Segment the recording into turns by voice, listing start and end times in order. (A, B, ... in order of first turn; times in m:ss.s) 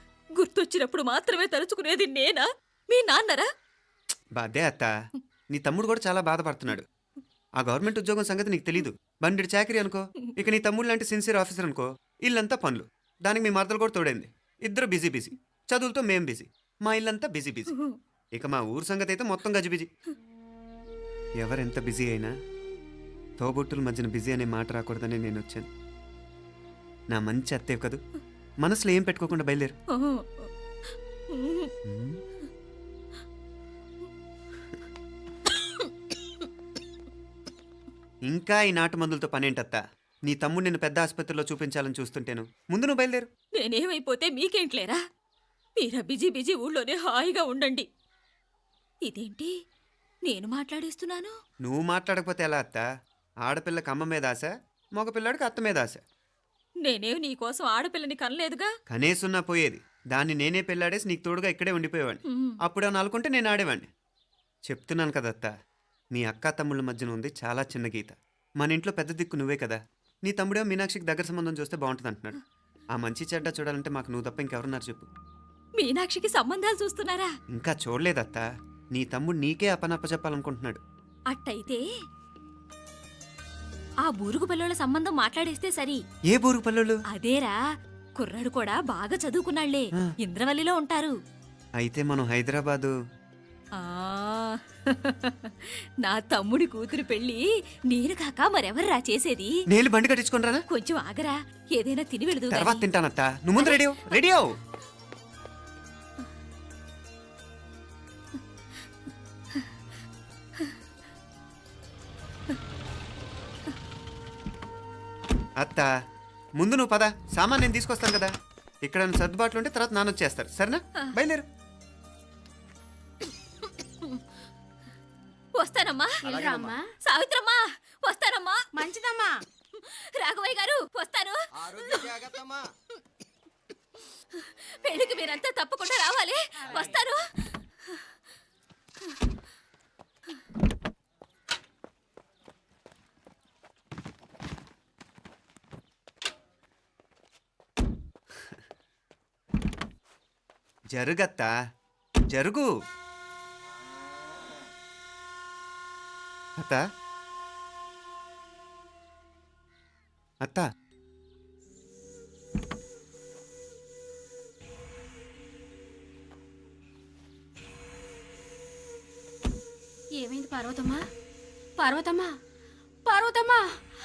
0:00.4-0:03.5 A
0:04.4-0:04.9 B
0:05.5-0:06.9 B
0:07.6-0:17.7 B
0:18.3-0:19.9 B
0:21.4-0:22.3 B
0:23.4-0:25.7 B
0:27.1-0:28.0 B
0:28.6-0:29.8 B
0:29.9-0:30.5 A
0:31.3-0:31.7 A
0:31.8-0:32.2 B
0:38.3-0:43.3 B
0:43.6-0:45.0 A
0:45.8-0:47.9 A
0:49.0-0:49.5 A
0:50.3-0:51.4 A
0:51.6-0:52.8 B
0:53.4-0:56.0 B
0:56.8-0:58.7 A
0:58.9-1:03.9 B
1:02.3-1:02.6 A
1:04.7-1:05.5 B
1:06.1-1:12.4 B
1:12.9-1:15.1 B
1:15.8-1:17.3 A
1:17.5-1:20.8 B
1:21.3-1:21.8 A
1:24.0-1:26.0 A
1:26.3-1:27.0 B
1:27.1-1:27.6 A
1:28.2-1:31.2 A
1:31.8-1:33.0 B
1:33.8-1:39.5 A
1:39.7-1:40.6 B
1:40.7-1:42.8 A
1:42.5-1:44.6 B
1:43.6-1:44.2 A
1:55.6-1:55.9 B
1:56.6-1:58.3 B
1:58.8-2:01.5 B
2:05.6-2:06.3 A
2:06.2-2:06.9 C
2:07.0-2:08.6 A
2:08.8-2:09.4 C
2:09.8-2:12.3 A
2:14.4-2:17.2 A
2:30.9-2:31.5 B
2:32.3-2:32.7 B
2:36.6-2:36.9 B
2:40.4-2:40.7 B
2:50.2-2:51.0 C
2:51.8-2:52.3 C
2:53.1-2:53.6 C